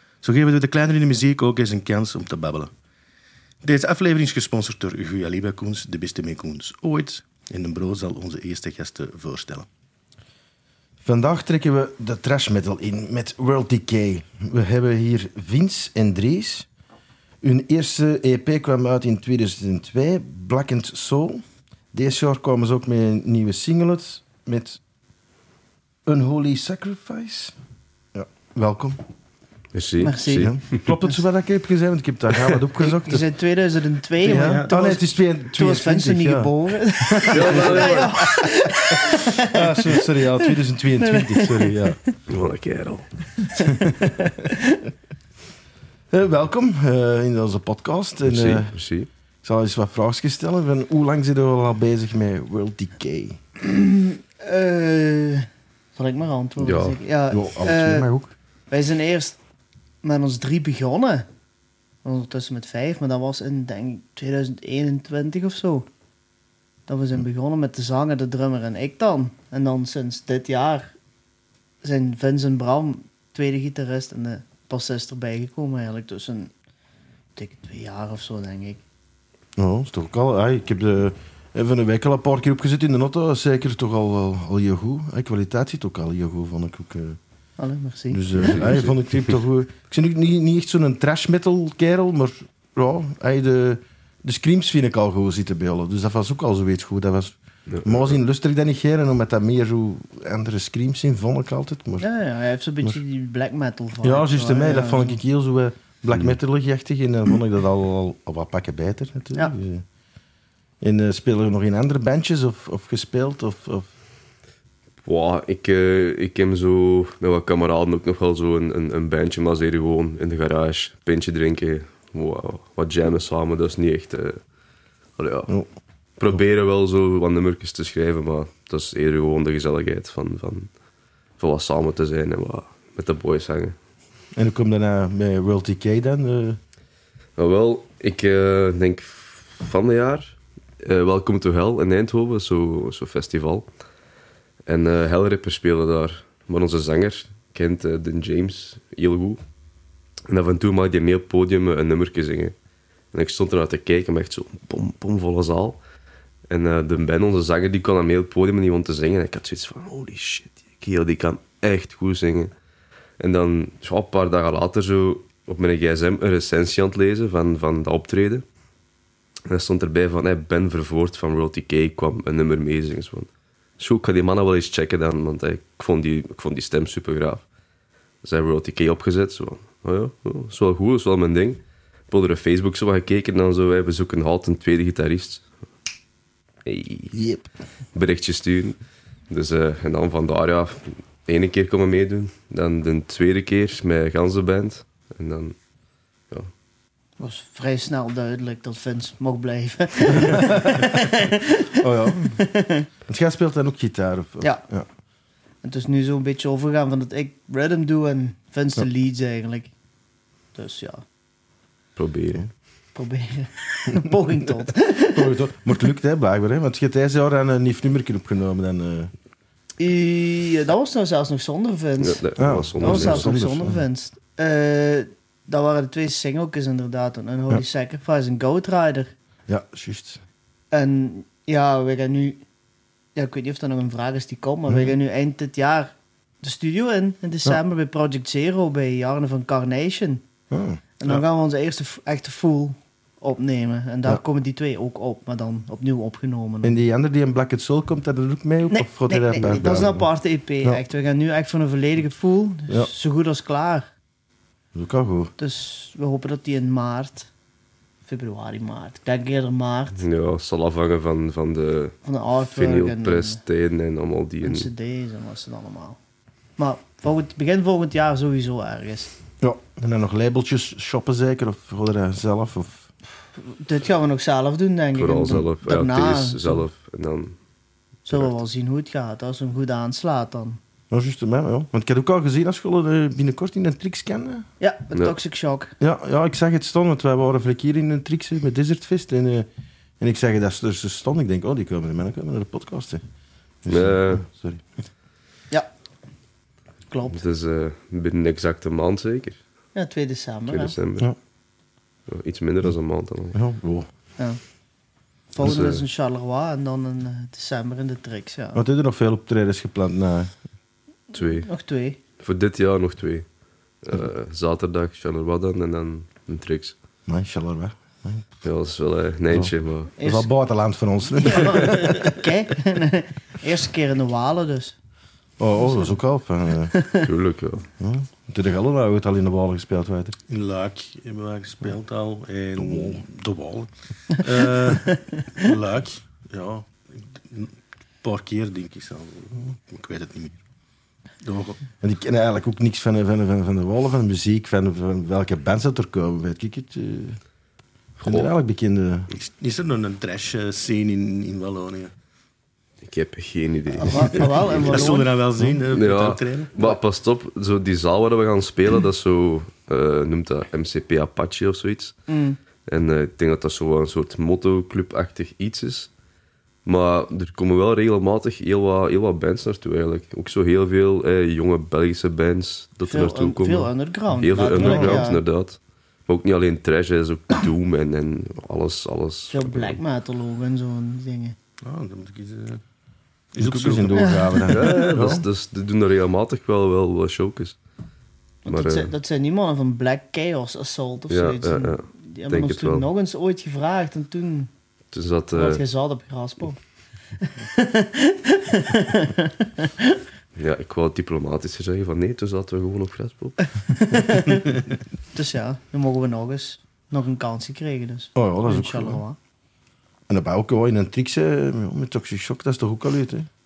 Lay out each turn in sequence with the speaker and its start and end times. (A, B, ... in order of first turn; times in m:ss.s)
0:00.2-0:02.7 A
0:03.6-0:09.7 A
0:11.0-0:16.7 B
0:17.4-0:21.4 B
0:21.9-0:24.8 B
0:26.0-0:27.6 B
0:28.1-0:29.0 B
0:29.7-0:30.8 C
0:30.0-0:30.9 D
0:30.4-0:33.2 B
0:32.8-0:42.1 D
0:34.2-0:42.0 B
0:34.2-0:34.8 A
0:37.3-0:38.4 C
0:42.3-0:43.3 C
0:43.5-0:44.8 D
0:43.7-0:44.1 B
0:46.1-0:48.8 B
0:48.3-0:49.1 C
0:49.4-0:53.4 B
0:53.6-0:58.1 D
0:56.6-0:57.0 C
0:57.3-0:58.3 B
0:58.7-0:59.4 D
1:00.0-1:01.2 D
1:02.0-1:05.9 D
1:06.9-1:10.9 D
1:11.8-1:16.5 D
1:17.4-1:18.8 D
1:19.6-1:27.2 B
1:27.6-1:28.6 D
1:28.1-1:42.1 B
1:28.4-1:28.9 C
1:37.7-1:38.0 C
1:42.0-1:45.2 D
1:44.0-1:49.8 B
1:50.8-1:53.9 B
1:55.0-2:04.4 C
2:05.2-2:05.5 C
2:06.2-2:10.7 C
2:11.4-2:13.8 C
2:14.3-2:16.6 B
2:17.4-2:23.7 C
2:24.7-2:29.4 C
2:30.3-2:32.5 C
2:33.1-2:35.8 C
2:36.5-2:42.5 C
2:43.2-2:48.4 C
2:49.5-2:57.4 C
2:58.2-3:05.4 C
3:06.6-3:07.2 C
3:07.1-3:07.5 B
3:07.9-3:08.8 C
3:09.3-3:15.5 C
3:17.2-3:22.9 D
3:20.2-3:20.7 B
3:21.8-3:22.4 B
3:23.1-3:24.9 B
3:25.6-3:29.7 D
3:30.5-3:31.0 D
3:32.0-3:32.5 C
3:32.9-3:35.3 D
3:35.1-3:39.1 B
3:39.8-3:42.2 D
3:42.0-3:43.3 C
3:42.4-3:43.8 B
3:42.8-3:49.1 D
3:49.5-3:50.2 B
3:50.7-3:52.4 D
3:53.2-4:00.2 D
4:00.5-4:01.2 B
4:01.0-4:06.8 D
4:06.6-4:10.1 B
4:08.7-4:13.9 D
4:14.7-4:15.3 B
4:15.4-4:17.3 D
4:18.0-4:20.0 D
4:20.0-4:24.7 C
4:22.0-4:23.4 D
4:24.4-4:26.0 D
4:26.6-4:29.1 D
4:29.4-4:32.9 B
4:33.4-4:36.6 D
4:35.0-4:37.4 C
4:38.1-4:38.3 C
4:38.1-4:40.6 D
4:40.9-4:44.5 B
4:44.6-4:45.8 D
4:45.8-4:49.5 B
4:50.0-4:53.0 B
4:53.6-4:54.6 B
4:53.7-4:54.2 C
4:56.9-4:57.2 D
4:57.1-4:59.4 C
4:59.8-5:00.8 D
5:00.5-5:01.1 C
5:02.1-5:03.4 C
5:03.3-5:03.9 B
5:05.3-5:08.6 D
5:05.4-5:05.8 C
5:08.5-5:10.3 B
5:11.1-5:11.5 C
5:11.4-5:12.0 D
5:12.2-5:13.2 C
5:13.8-5:16.8 C
5:17.1-5:18.3 B
5:18.4-5:19.9 C
5:19.3-5:22.1 B
5:20.0-5:20.3 D
5:21.2-5:24.8 D
5:25.4-5:26.8 B
5:26.7-5:27.0 D
5:27.0-5:27.6 C
5:27.8-5:30.2 B
5:30.3-5:40.4 A
5:32.6-5:32.9 B
5:41.2-5:41.6 A
5:41.8-5:47.2 B
5:48.0-5:48.3 C
5:48.0-5:49.1 B
5:49.1-5:51.9 A
5:52.8-5:55.0 C
5:53.7-5:55.1 D
5:54.1-5:56.5 A
5:55.7-6:02.0 C
6:02.1-6:02.4 D
6:02.7-6:05.9 C
6:06.6-6:19.8 C
6:12.9-6:15.2 D
6:14.5-6:15.1 B
6:19.3-6:21.4 D
6:21.6-6:22.6 A
6:23.3-6:24.2 A
6:23.4-6:25.2 B
6:24.0-6:24.4 D
6:24.5-6:27.6 C
6:28.4-6:34.5 D
6:28.5-6:28.9 C
6:31.1-6:32.9 C
6:34.9-6:35.6 C
6:35.4-6:36.6 D
6:37.2-6:40.0 D
6:40.4-6:43.5 C
6:43.7-6:44.5 D
6:45.1-6:49.2 D
6:48.1-6:49.0 B
6:50.1-6:53.3 B